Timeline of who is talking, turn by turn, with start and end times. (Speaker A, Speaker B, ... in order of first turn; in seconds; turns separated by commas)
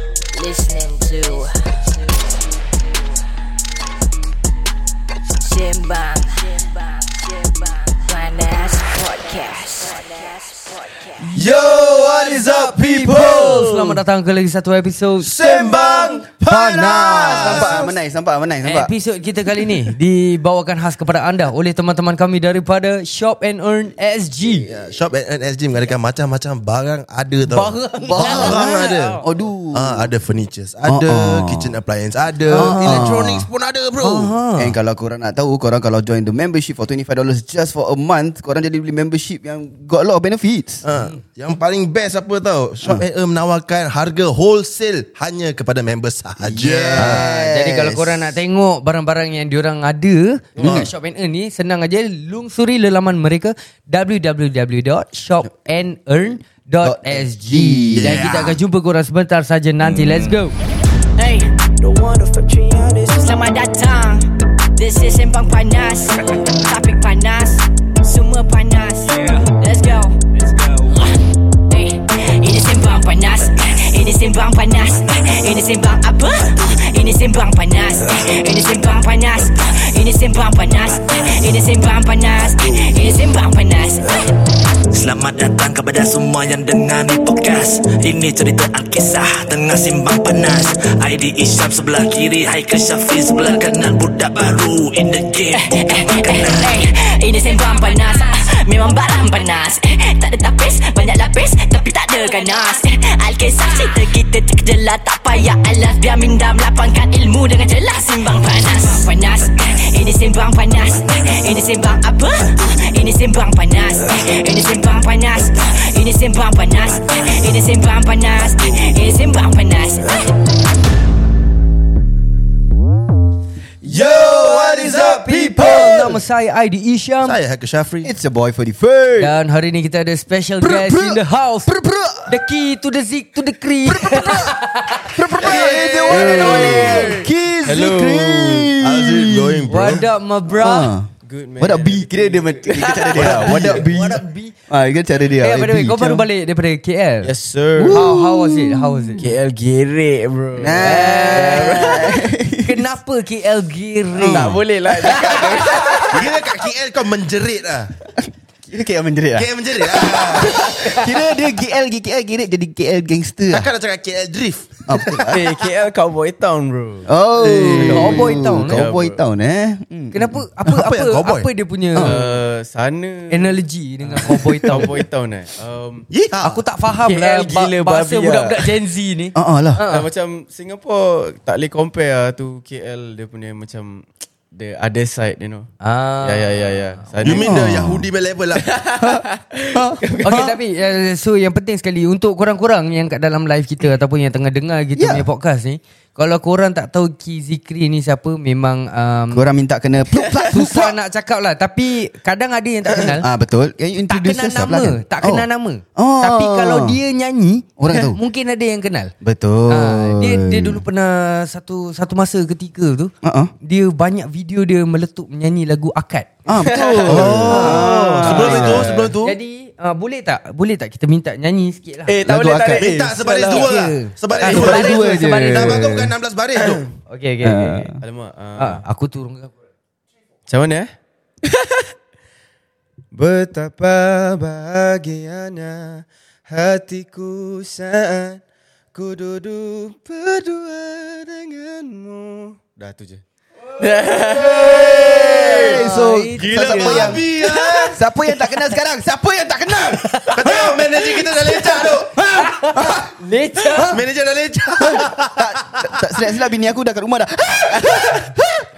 Speaker A: 0.3-2.3, Speaker A: 5.4-11.2, Speaker B: 11.2-17.9, Speaker C: 11.3-14.0, Speaker C: 15.2-17.9, Speaker D: 17.1-18.9, Speaker B: 18.6-24.7, Speaker C: 24.7-29.2, Speaker B: 27.4-29.2, Speaker D: 28.1-30.1, Speaker C: 29.7-34.3, Speaker D: 30.9-31.8, Speaker B: 32.5-33.1, Speaker D: 32.5-33.5, Speaker B: 34.0-34.8, Speaker D: 34.6-40.8, Speaker C: 40.8-47.2, Speaker B: 40.9-41.2, Speaker D: 46.4-48.2, Speaker B: 46.9-60.6, Speaker C: 50.6-50.9, Speaker D: 50.6-50.9, Speaker D: 56.8-58.3, Speaker C: 57.9-58.6, Speaker A: 61.2-71.2, Speaker A: 71.7-84.2, Speaker E: 84.9-96.8, Speaker A: 95.6-120.2, Speaker C: 123.8-126.2, Speaker D: 123.9-126.0, Speaker B: 124.7-127.4, Speaker C: 127.2-128.1, Speaker D: 128.0-129.3, Speaker B: 129.2-131.7, Speaker D: 130.6-132.4, Speaker B: 132.3-137.1, Speaker D: 133.8-146.3, Speaker F: 135.4-138.7, Speaker C: 135.5-137.1, Speaker C: 138.8-140.1, Speaker B: 139.7-140.9, Speaker F: 141.2-143.8, Speaker C: 143.2-143.8, Speaker B: 143.6-144.6, Speaker B: 145.4-147.3, Speaker F: 147.2-148.0, Speaker D: 147.8-149.3, Speaker B: 147.9-149.2, Speaker F: 149.2-152.2, Speaker D: 150.6-152.9, Speaker B: 150.8-155.8, Speaker D: 154.1-155.8, Speaker F: 154.3-156.3, Speaker C: 156.0-157.9, Speaker D: 158.2-163.7, Speaker C: 159.4-160.9, Speaker C: 163.5-164.8, Speaker D: 164.9-165.5, Speaker F: 165.3-169.2, Speaker D: 167.1-170.5, Speaker C: 167.4-167.8, Speaker B: 167.8-168.8, Speaker B: 170.1-172.2, Speaker C: 170.7-171.5, Speaker D: 171.9-172.4, Speaker F: 172.0-176.1, Speaker B: 173.3-174.9, Speaker D: 174.2-174.9, Speaker C: 176.1-176.6, Speaker B: 176.4-180.1, Speaker F: 177.1-178.7, Speaker D: 179.3-179.8, Speaker F: 179.9-185.7, Speaker B: 185.8-187.1, Speaker F: 186.2-187.6, Speaker C: 187.2-188.7, Speaker D: 187.3-188.1, Speaker F: 188.6-190.5, Speaker D: 189.0-190.6, Speaker B: 190.2-199.4, Speaker D: 195.0-195.3, Speaker D: 199.3-201.0, Speaker B: 200.4-203.3, Speaker D: 202.9-207.0, Speaker B: 204.1-209.1, Speaker D: 207.8-208.2, Speaker D: 209.2-210.8, Speaker B: 209.7-216.9, Speaker D: 213.2-213.5, Speaker D: 216.4-218.9, Speaker F: 216.6-219.2, Speaker C: 217.1-219.4, Speaker B: 217.5-222.2, Speaker F: 222.1-223.7, Speaker D: 222.2-222.9, Speaker C: 222.8-226.8, Speaker B: 223.3-225.9, Speaker D: 224.4-226.2, Speaker F: 226.6-226.8, Speaker B: 227.1-227.9, Speaker D: 227.4-228.0, Speaker F: 228.0-228.8, Speaker B: 228.6-229.5, Speaker F: 230.5-230.9, Speaker F: 231.5-231.8, Speaker F: 233.1-238.4, Speaker F: 238.9-243.2, Speaker F: 243.8-245.8, Speaker D: 244.3-247.2, Speaker B: 245.2-247.2, Speaker C: 246.3-247.9, Speaker F: 247.6-247.9, Speaker D: 247.9-251.1, Speaker B: 249.9-250.7, Speaker C: 250.3-252.2, Speaker D: 252.1-253.1, Speaker B: 252.3-253.9, Speaker D: 253.7-254.1, Speaker C: 253.9-255.9, Speaker D: 254.8-258.7